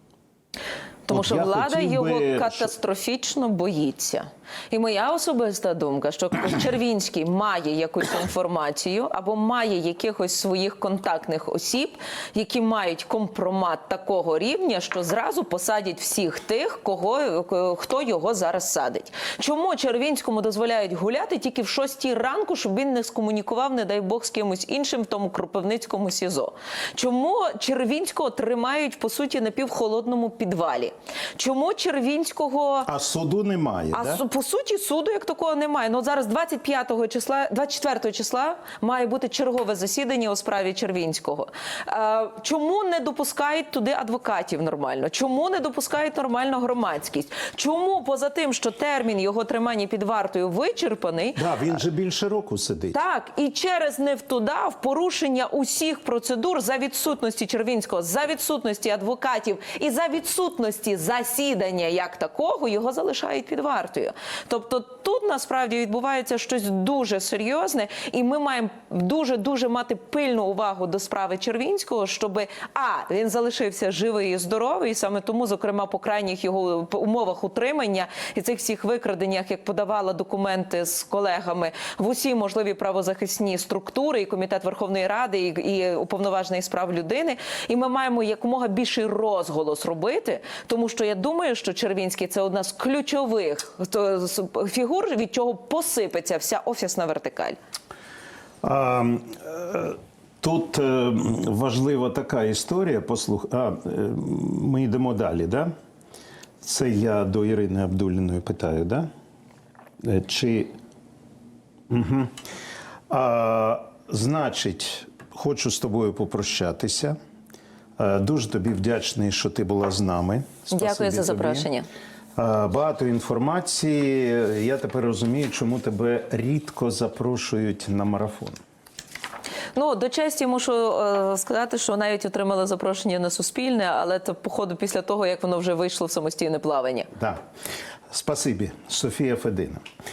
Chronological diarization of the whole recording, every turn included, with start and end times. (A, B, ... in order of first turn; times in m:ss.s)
0:01.1-0:32.9 A
0:01.1-0:02.7 B
0:32.9-0:34.2 B
0:33.9-0:51.8 A
0:51.4-0:53.0 B
0:52.9-1:37.6 A
1:38.6-1:45.7 B
1:46.6-1:49.1 B
1:50.0-1:50.7 B
1:51.9-1:52.3 B
1:53.1-1:57.2 B
1:58.0-2:01.7 B
2:00.7-2:01.9 A
2:02.4-2:08.6 B
2:09.8-2:17.1 A
2:18.1-2:19.8 B